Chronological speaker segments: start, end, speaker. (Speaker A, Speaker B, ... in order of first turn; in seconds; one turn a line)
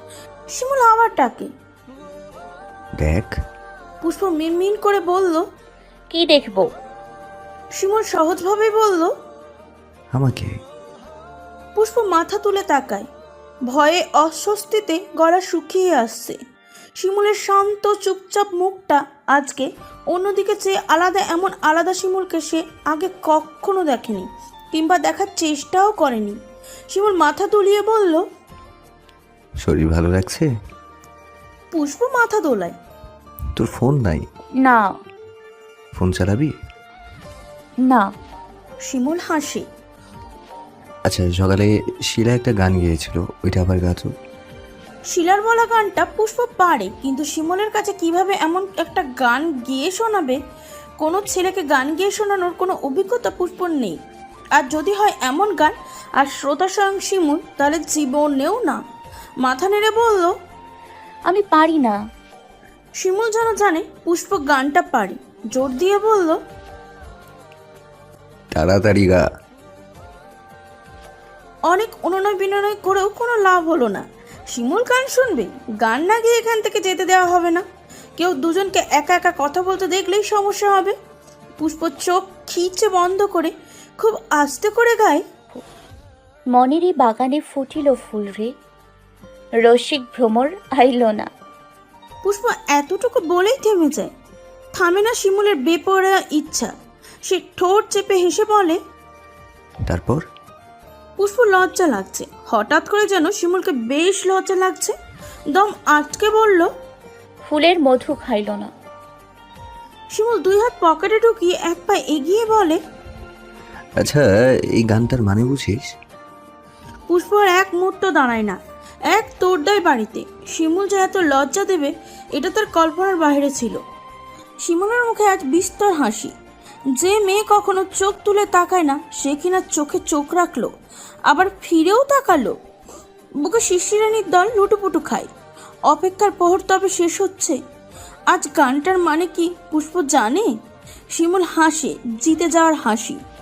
Speaker A: 0.5-1.5
Speaker B: 3.0-3.4
Speaker A: 4.0-5.4
Speaker C: 6.1-6.7
Speaker A: 7.8-9.1
Speaker B: 10.1-10.6
Speaker A: 11.8-13.1
Speaker A: 13.7-16.4
Speaker A: 17.0-26.4
Speaker A: 26.9-28.2
Speaker B: 29.6-30.5
Speaker A: 31.7-32.8
Speaker B: 33.5-34.2
Speaker C: 34.6-35.0
Speaker B: 35.9-36.5
Speaker C: 37.8-38.1
Speaker A: 38.8-39.7
Speaker B: 41.0-44.1
Speaker A: 45.1-50.4
Speaker A: 51.0-54.0
Speaker A: 54.5-58.8
Speaker A: 59.4-60.3
Speaker C: 61.2-62.0
Speaker A: 63.0-66.4
Speaker B: 68.5-69.2
Speaker A: 71.7-77.6
Speaker A: 78.2-80.9
Speaker A: 81.6-85.2
Speaker C: 86.5-88.5
Speaker C: 89.6-91.3
Speaker A: 92.2-94.1
Speaker A: 94.7-96.7
Speaker A: 97.2-98.8
Speaker B: 99.9-100.2
Speaker A: 101.2-104.9
Speaker A: 105.5-106.7
Speaker C: 107.5-108.7
Speaker A: 110.1-112.8
Speaker B: 114.0-115.9
Speaker A: 117.1-118.6
Speaker A: 119.1-123.8
Speaker A: 124.6-126.3
Speaker A: 127.0-130.7
Speaker A: 131.3-132.6
Speaker A: 133.4-135.3
Speaker A: 135.9-137.6
Speaker A: 138.3-140.5
Speaker A: 141.1-143.2